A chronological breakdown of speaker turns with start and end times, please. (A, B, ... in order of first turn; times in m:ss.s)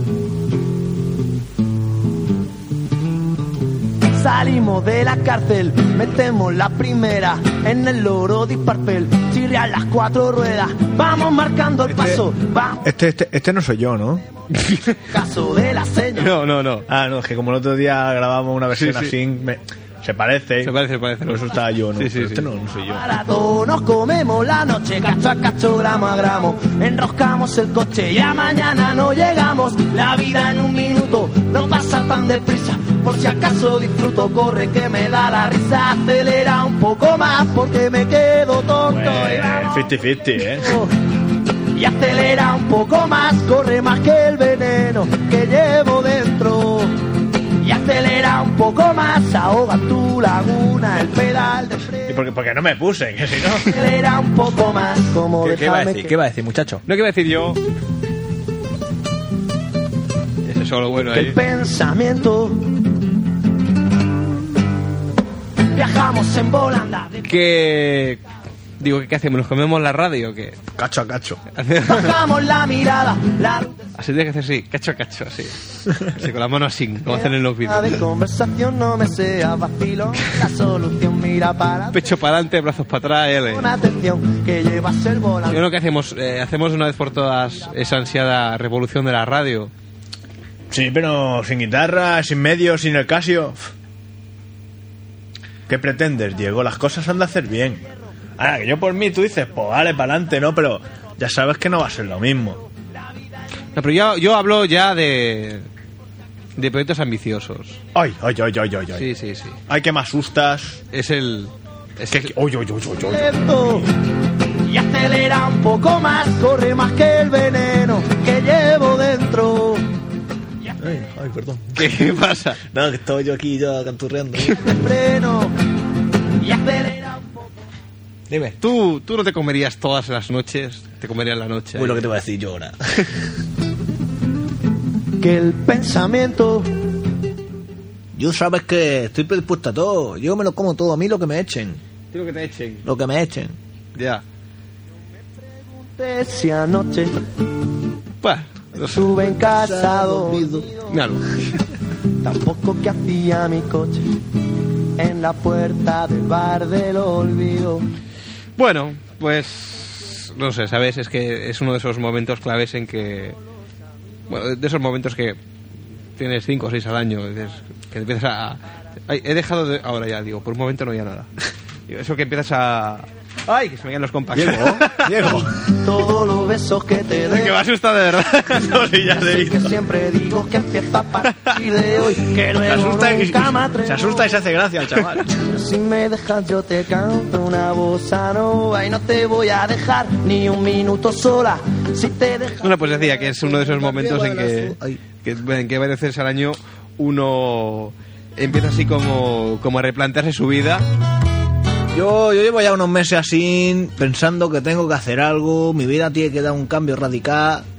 0:04.1-0:12.9 A
0:11.8-0:12.2 B
0:12.8-0:14.3 B
0:14.5-0:15.0 C
0:15.1-0:16.4 A
0:16.2-0:16.9 C
0:16.9-0:23.1 B
0:18.7-0:19.2 C
0:20.6-0:22.5 C
0:22.8-0:40.9 A
0:38.9-0:40.8 B
0:41.7-0:47.0 A
0:47.6-0:52.2 A
0:52.1-0:53.7 B
0:53.6-0:56.2 A
0:55.4-0:56.8 B
0:56.9-0:57.6 C
1:00.4-1:01.4 C
1:01.1-1:02.7 A
1:05.7-1:07.3 A
1:07.2-1:08.2 C
1:08.8-1:10.6 C
1:10.8-1:11.4 B
1:11.5-1:12.2 C
1:11.9-1:13.9 A
1:14.0-1:18.0 C
1:17.0-1:22.2 A
1:21.9-1:23.7 C
1:23.5-1:25.6 A
1:25.5-1:29.7 C
1:30.7-1:33.7 B
1:35.7-1:42.7 B
1:43.7-1:45.7 C
1:46.6-1:47.8 C
1:47.9-1:49.1 B
1:49.0-1:49.6 C
1:49.7-1:50.8 B
1:50.9-1:52.3 C
1:52.1-1:53.8 B
1:53.1-1:53.9 A
1:54.7-1:59.9 A
2:00.8-2:02.1 B
2:01.8-2:02.6 C
2:02.6-2:04.7 B
2:04.5-2:05.5 A
2:06.4-2:07.4 A
2:08.3-2:08.6 B
2:08.6-2:12.1 C
2:11.8-2:13.3 B
2:15.2-2:16.7 A
2:18.1-2:21.8 B
2:22.1-2:22.9 C
2:22.8-2:23.6 B
2:24.0-2:24.2 C
2:25.8-2:27.2 A
2:28.2-2:29.1 C
2:28.8-2:31.0 A
2:28.9-2:30.7 B
2:30.9-2:31.4 C
2:32.2-2:34.1 A
2:35.0-2:37.9 A
2:38.6-2:43.4 C
2:44.3-2:45.4 C
2:46.2-2:51.3 C
2:51.9-2:55.4 C
2:54.3-2:55.6 B
2:55.3-2:57.6 A
2:57.2-2:58.8 C
2:58.4-2:59.8 B
2:58.9-3:04.4 A
3:02.6-3:05.3 B
3:05.3-3:13.1 A
3:12.6-3:20.8 C
3:13.2-3:15.0 B
3:21.9-3:27.7 B